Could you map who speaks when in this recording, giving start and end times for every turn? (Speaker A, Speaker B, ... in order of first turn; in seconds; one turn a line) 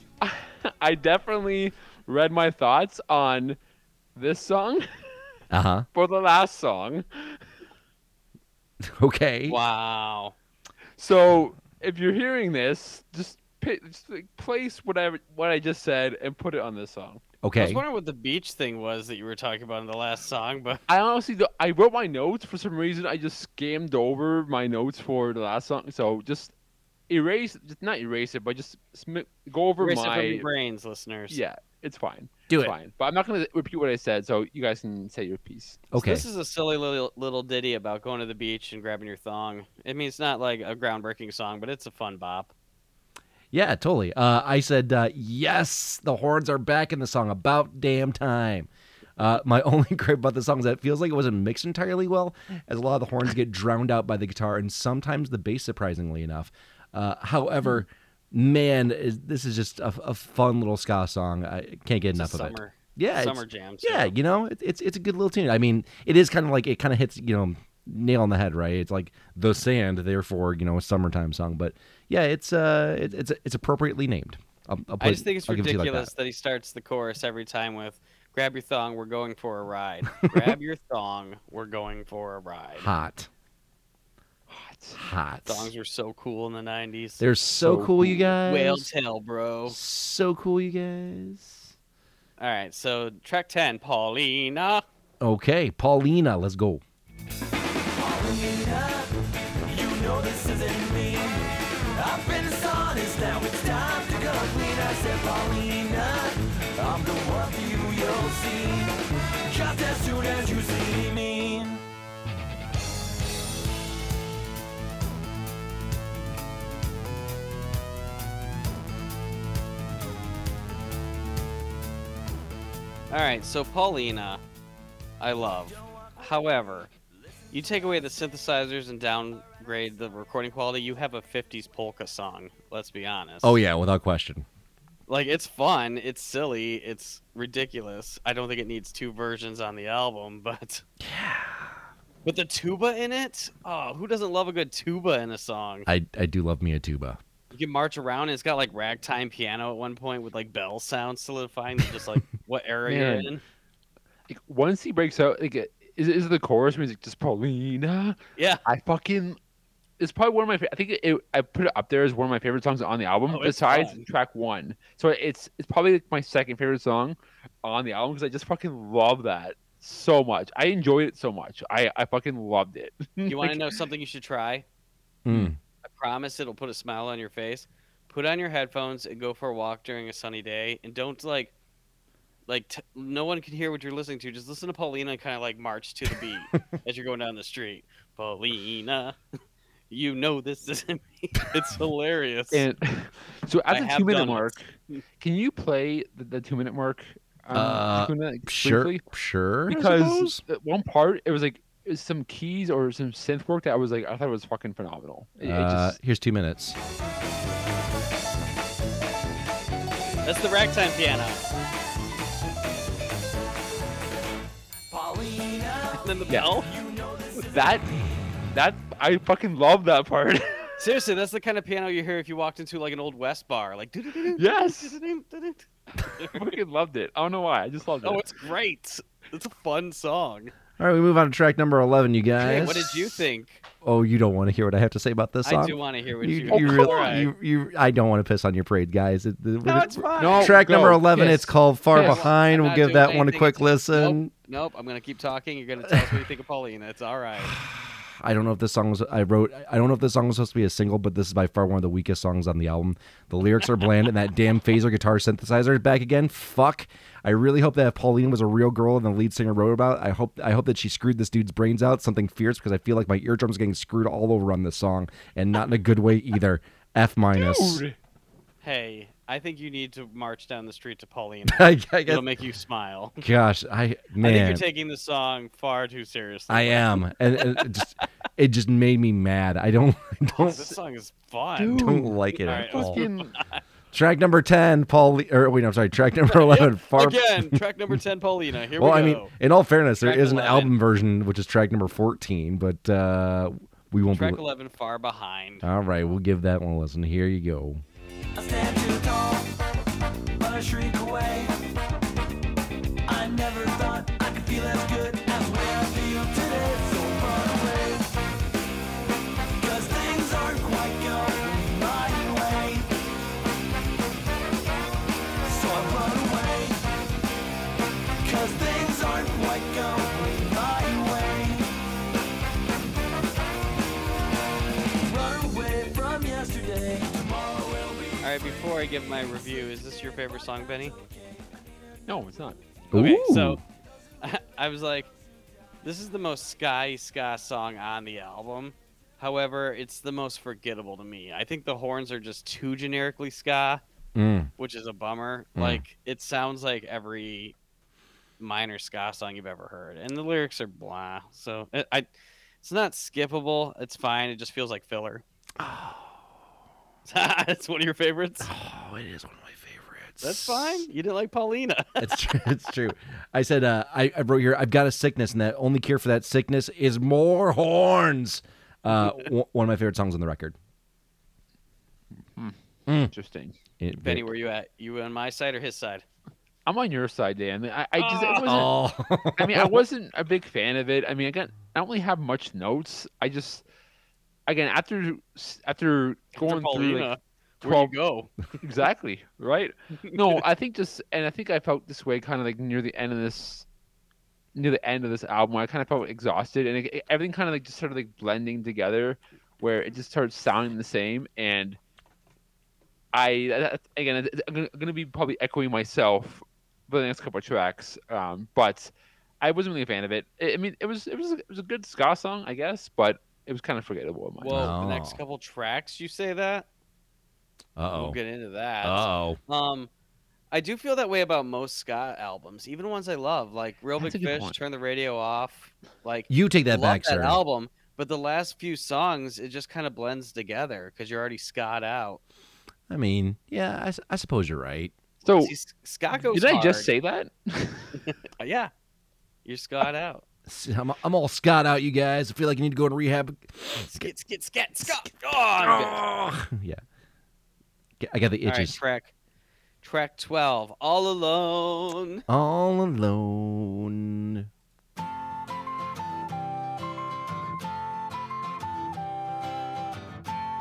Speaker A: 0.2-3.6
Speaker A: 4.2-5.3
Speaker B: 5.5-5.9
Speaker A: 5.9-7.4
Speaker B: 8.8-9.6
Speaker C: 9.5-10.4
Speaker A: 11.0-17.2
Speaker B: 17.4-17.8
Speaker C: 17.6-20.8
Speaker A: 20.9-26.5
Speaker A: 27.1-30.5
Speaker C: 29.8-31.4
Speaker A: 31.3-35.8
Speaker B: 32.5-32.8
Speaker B: 35.9-36.3
Speaker C: 36.0-42.5
Speaker B: 43.5-76.1
Speaker C: 62.1-64.2
Speaker C: 75.0-82.9
Speaker B: 80.2-80.5
Speaker B: 82.8-83.3
Speaker A: 84.5-85.0
Speaker B: 85.0-85.7
Speaker C: 85.5-87.2
Speaker B: 87.2-88.9
Speaker A: 87.6-88.3
Speaker C: 88.4-89.8
Speaker B: 89.7-91.7
Speaker C: 92.4-94.8
Speaker B: 95.2-96.8
Speaker D: 97.9-111.8
Speaker C: 123.1-124.4
Speaker C: 125.2-126.9
Speaker C: 127.5-133.6
Speaker B: 133.4-134.4
Speaker C: 135.1-140.8
Speaker B: 141.0-141.8
Speaker C: 142.2-145.9
Speaker B: 145.9-147.2
Speaker C: 147.5-153.4
Speaker A: 152.9-153.3
Speaker A: 154.3-159.4
Speaker C: 158.4-158.6
Speaker A: 160.0-173.8
Speaker C: 163.3-164.0
Speaker C: 173.3-174.7
Speaker B: 175.2-175.6
Speaker C: 175.8-181.5
Speaker C: 182.5-189.2
Speaker C: 189.9-192.7
Speaker A: 192.5-199.0
Speaker C: 193.7-195.0
Speaker B: 197.5-200.4
Speaker A: 199.7-206.0
Speaker B: 205.4-206.8
Speaker C: 210.2-211.4
Speaker D: 214.9-218.0
Speaker C: 215.9-216.7
Speaker A: 217.5-217.9
Speaker A: 218.5-220.8
Speaker C: 220.8-226.6
Speaker A: 224.3-225.0
Speaker A: 226.3-228.4
Speaker C: 228.0-230.5
Speaker B: 230.8-233.2
Speaker C: 232.4-233.6
Speaker B: 233.8-244.3
Speaker C: 235.4-237.3
Speaker A: 236.5-237.2
Speaker C: 239.7-240.6
Speaker A: 240.2-242.3
Speaker C: 241.9-247.6
Speaker B: 245.9-246.2
Speaker B: 247.5-267.8
Speaker A: 267.3-268.0
Speaker C: 268.6-273.2
Speaker B: 271.5-272.3
Speaker B: 273.2-274.6
Speaker C: 274.2-277.8
Speaker B: 276.5-280.8
Speaker C: 280.3-281.8
Speaker A: 281.6-283.3
Speaker B: 281.7-283.1
Speaker C: 282.4-283.6
Speaker B: 283.9-287.6
Speaker C: 286.3-289.3
Speaker B: 288.8-294.4
Speaker C: 290.0-290.8
Speaker C: 294.1-295.7
Speaker B: 295.6-297.8
Speaker D: 298.4-299.6
Speaker D: 300.4-301.5
Speaker D: 303.1-308.1
Speaker D: 309.6-312.9
Speaker D: 315.4-316.8
Speaker D: 318.2-321.7
Speaker D: 325.0-328.3
Speaker C: 328.2-330.9
Speaker A: 332.1-332.6
Speaker B: 332.9-333.6
Speaker C: 332.9-333.6
Speaker C: 334.2-335.1
Speaker C: 335.8-343.8
Speaker B: 344.2-344.5
Speaker C: 344.6-347.6
Speaker B: 345.6-345.8
Speaker C: 348.4-355.2
Speaker B: 355.6-356.3
Speaker C: 357.1-358.5
Speaker B: 358.4-360.9
Speaker C: 360.2-362.4
Speaker B: 362.0-370.6
Speaker B: 372.9-373.1
Speaker A: 373.1-373.6
Speaker B: 373.8-374.3
Speaker C: 374.0-376.1
Speaker A: 376.7-378.7
Speaker C: 378.0-378.7
Speaker B: 378.4-379.8
Speaker A: 379.4-383.6
Speaker A: 384.5-387.9
Speaker C: 386.4-388.3
Speaker A: 388.6-393.7
Speaker C: 390.1-390.4
Speaker A: 394.6-401.8
Speaker A: 403.1-414.7
Speaker C: 414.4-416.7
Speaker B: 414.5-415.2
Speaker B: 417.8-418.2
Speaker C: 417.9-419.9
Speaker B: 418.8-419.4
Speaker C: 420.5-432.2
Speaker A: 424.0-424.6
Speaker B: 426.3-427.4
Speaker B: 432.9-434.9
Speaker A: 435.2-435.5
Speaker C: 435.4-436.9
Speaker A: 436.3-438.0
Speaker C: 438.4-438.7
Speaker C: 439.4-440.2
Speaker B: 440.5-444.1
Speaker C: 443.9-446.1
Speaker B: 445.6-446.8
Speaker B: 448.0-448.8
Speaker C: 448.4-449.1
Speaker C: 449.8-452.2
Speaker B: 452.3-454.5